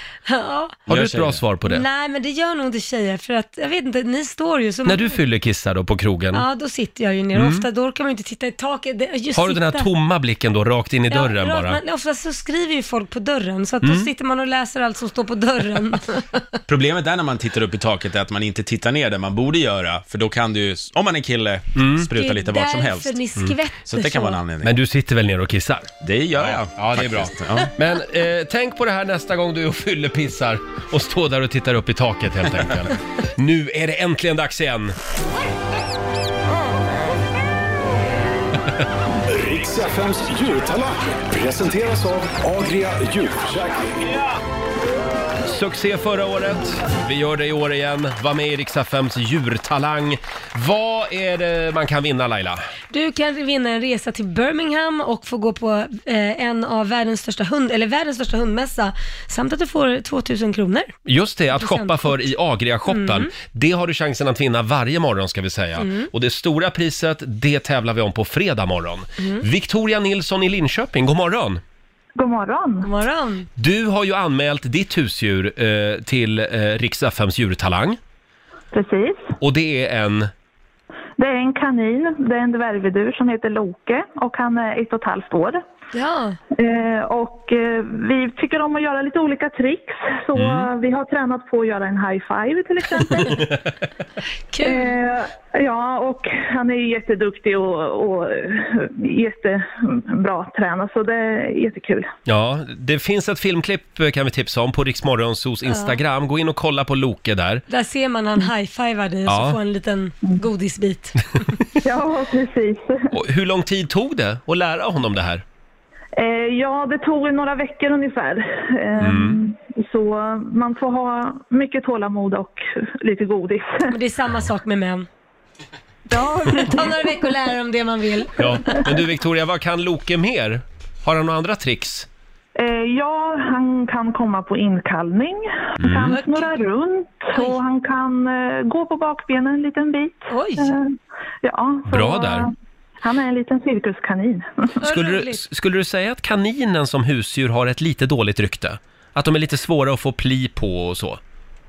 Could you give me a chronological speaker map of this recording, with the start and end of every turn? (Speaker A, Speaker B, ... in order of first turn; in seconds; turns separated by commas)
Speaker A: 0.3-0.8, Speaker B: 0.9-1.9, Speaker A: 1.6-5.2, Speaker B: 4.8-6.4, Speaker A: 6.3-9.9, Speaker B: 7.3-7.7, Speaker B: 9.3-11.8, Speaker A: 11.1-16.4, Speaker B: 13.8-14.1, Speaker C: 16.7-23.1, Speaker B: 21.8-22.1, Speaker A: 22.1-24.4, Speaker C: 23.9-24.7, Speaker B: 24.6-25.9, Speaker C: 26.0-27.7, Speaker B: 26.7-35.0, Speaker D: 39.3-44.1, Speaker B: 45.5-52.7, Speaker A: 52.9-60.9, Speaker B: 61.1-71.6, Speaker A: 61.6-62.1, Speaker A: 62.9-63.3, Speaker A: 65.8-66.1, Speaker E: 72.2-72.9, Speaker A: 72.8-73.5, Speaker B: 73.6-78.0, Speaker E: 78.7-79.3, Speaker B: 79.4-80.3, Speaker E: 81.2-85.6, Speaker A: 85.9-86.4, Speaker E: 86.6-93.5, Speaker B: 90.3-90.7, Speaker A: 94.5-94.9, Speaker E: 94.6-102.1, Speaker B: 102.3-107.6, Speaker A: 105.7-106.0, Speaker A: 107.7-111.3, Speaker B: 109.3-109.6, Speaker E: 111.8-113.1, Speaker B: 113.1-115.4, Speaker E: 116.2-123.9, Speaker B: 119.0-119.4, Speaker A: 123.9-125.1, Speaker E: 126.1-127.3, Speaker A: 126.5-128.9, Speaker B: 128.4-132.1, Speaker E: 132.6-140.9, Speaker B: 135.8-136.2, Speaker A: 136.1-136.5, Speaker A: 137.3-137.6, Speaker A: 140.3-140.8, Speaker E: 141.4-142.5, Speaker B: 141.9-142.5, Speaker E: 143.0-144.8, Speaker A: 144.8-145.4, Speaker B: 144.8-151.2